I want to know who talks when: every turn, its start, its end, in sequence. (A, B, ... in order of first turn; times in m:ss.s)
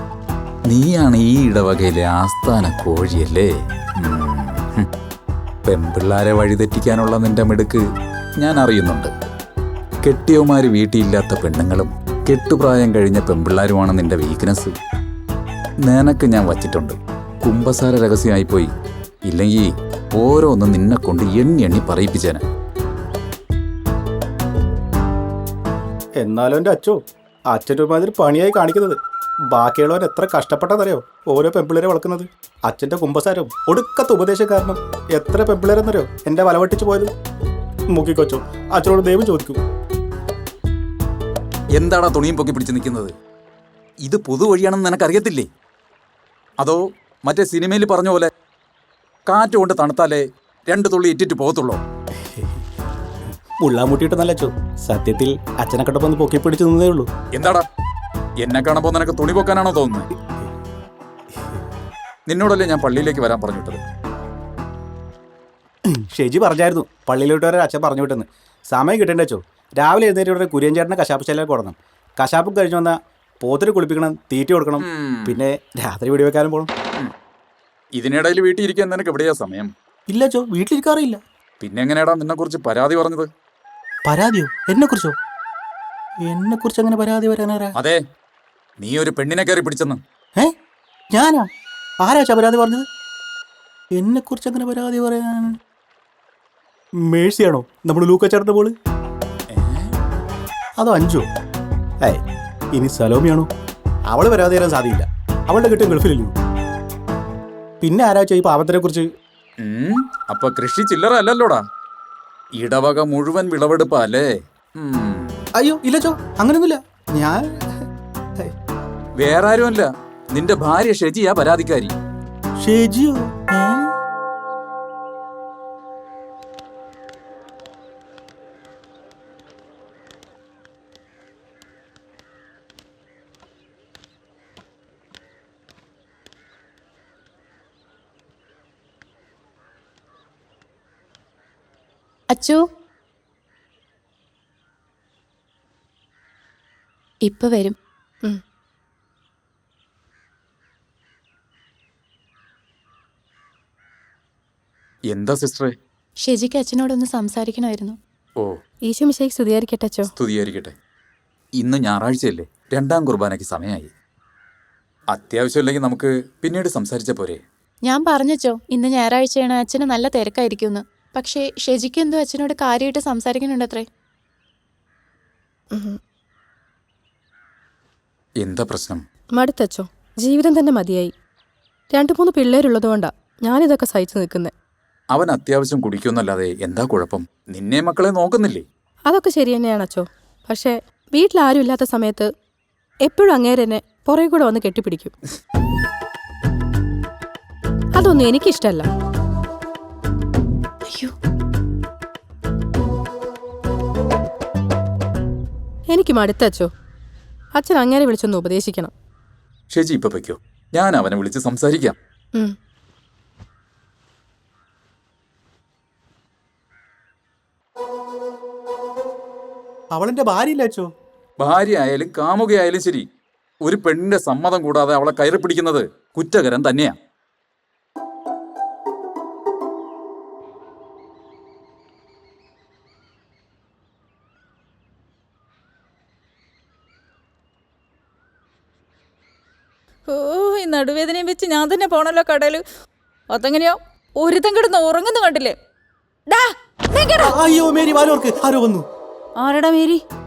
0:00.7-0:04.9 A
0:05.7-0:07.8 A
0:08.4-0:09.1 A
0:10.0-0:14.7 A
0:15.8-0:18.7 A
0:19.3-0:22.4 A
0:26.2-0:27.0 B
0:27.5-0:29.0 B
0:29.5-0:37.1 B
0:37.9-0:39.6 B
0:41.7-0:43.1 A
0:44.0-0:45.5 A
0:46.6-0:48.3 A
0:49.3-0:51.8 A
0:52.2-0:52.6 B
0:53.6-0:57.1 B
0:57.3-0:57.6 A
0:58.4-1:00.1 A
1:02.3-1:03.8 A
1:05.9-1:16.7 B
1:14.8-1:15.4 A
1:18.0-1:19.7 A
1:20.1-1:21.2 B
1:21.6-1:23.3 A
1:24.0-1:25.1 B
1:26.2-1:27.7 B
1:27.8-1:28.0 A
1:28.8-1:30.0 A
1:31.1-1:31.5 B
1:32.0-1:32.8 B
1:33.9-1:35.6 B
1:37.0-1:38.7 B
1:39.5-1:39.9 A
1:40.8-1:41.3 B
1:42.7-1:43.5 B
1:44.1-1:46.3 B
1:47.8-1:49.0 B
1:49.6-1:51.6 A
1:52.6-1:55.3 A
1:55.6-1:57.4 B
1:59.2-2:01.9 A
2:02.6-2:03.9 B
2:22.3-2:22.6 C
2:27.2-2:27.7 C
2:35.1-2:35.7 A
2:36.2-2:38.0 C
2:38.9-2:40.1 D
2:40.2-2:40.7 A
2:41.6-2:43.9 A
2:45.1-2:47.4 A
2:47.8-2:53.9 C
2:55.7-2:56.0 D
2:58.4-2:59.0 A
2:59.4-3:01.1 D
3:01.9-3:04.5 D
3:05.1-3:08.6 A
3:09.1-3:12.3 D
3:13.0-3:15.1 D
3:17.9-3:18.9 D
3:20.9-3:21.1 C
3:25.9-3:26.7 D
3:27.5-3:28.9 D
3:29.7-3:32.0 A
3:39.9-3:40.9 B
3:41.4-3:43.0 A
3:43.6-3:46.9 A
4:00.0-4:02.6 E
4:03.3-4:05.6 E
4:06.3-4:07.3 E
4:07.2-4:08.8 B
4:09.4-4:10.0 E